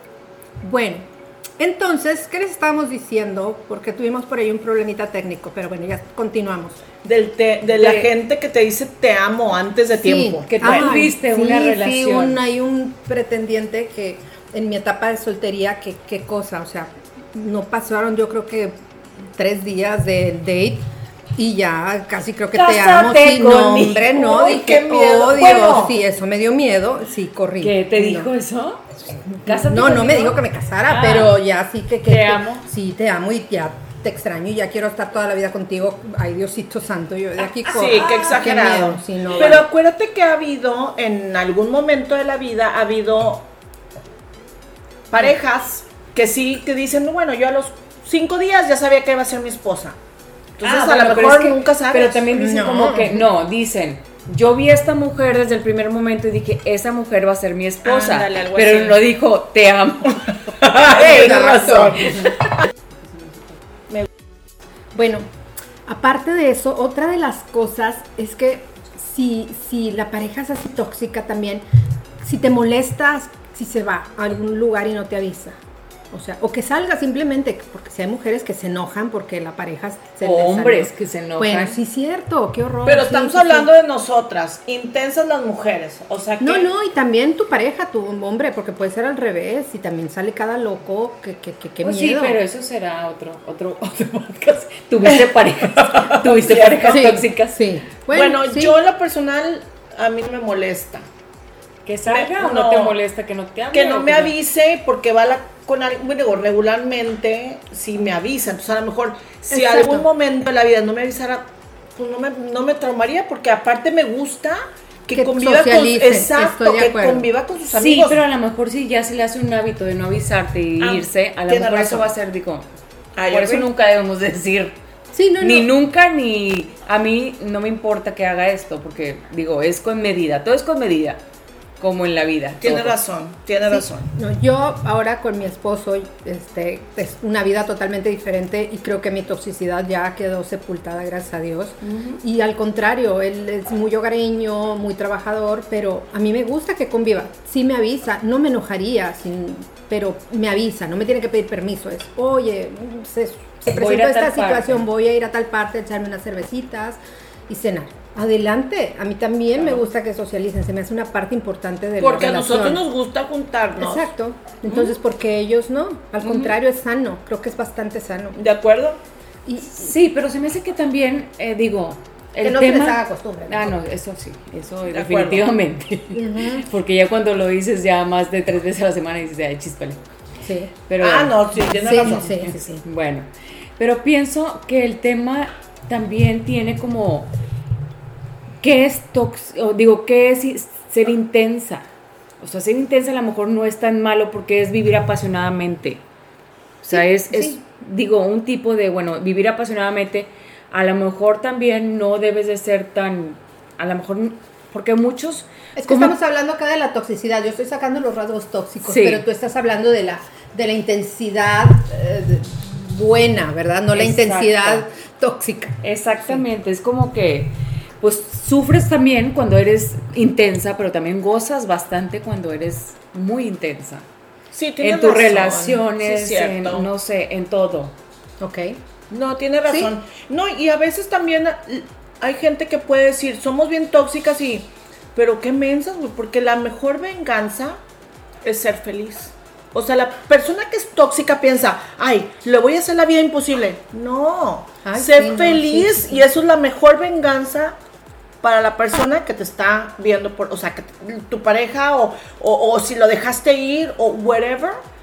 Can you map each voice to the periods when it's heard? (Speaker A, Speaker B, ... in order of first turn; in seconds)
Speaker A: 0.6-1.1, 1.6-6.8, 10.0-28.3, 29.3-39.7, 52.3-53.3, 60.8-62.2, 64.9-65.3, 65.9-71.6, 72.2-75.6, 76.1-83.7, 86.4-92.4, 96.9-98.8, 109.5-110.1, 115.1-117.3, 125.1-125.7, 133.7-162.8, 163.8-168.4, 169.5-169.9, 172.4-173.8, 176.1-176.7, 180.4-180.7, 181.8-182.8, 196.9-197.6, 205.8-215.8, 228.4-228.8, 244.8-246.3
Speaker B: 7.0-10.9, 24.1-26.0, 37.7-43.5, 45.1-50.0, 50.6-52.2, 57.9-59.0, 60.6-62.3, 82.9-86.7, 95.8-97.0, 98.1-101.1, 102.1-103.0, 103.7-118.2, 120.8-122.1, 123.2-123.7, 132.6-134.1, 141.8-142.2, 162.0-164.1, 168.4-169.0, 174.9-175.5, 181.0-182.5, 224.5-226.9, 229.1-237.8, 238.4-247.8, 248.4-254.8
Speaker C: 10.5-12.4, 22.5-24.4, 27.6-28.9, 29.4-31.4, 32.1-32.7, 37.9-38.5, 50.6-60.2, 60.9-63.6, 80.2-81.8, 91.8-97.7, 101.8-104.3, 117.7-122.7, 123.3-124.8, 125.4-131.2, 131.8-133.0, 153.7-154.8, 169.6-180.0, 180.9-181.4, 182.0-187.3, 188.6-191.9, 192.4-196.0, 196.8-206.1, 208.8-209.2, 213.9-214.8, 215.8-224.1, 224.8-227.9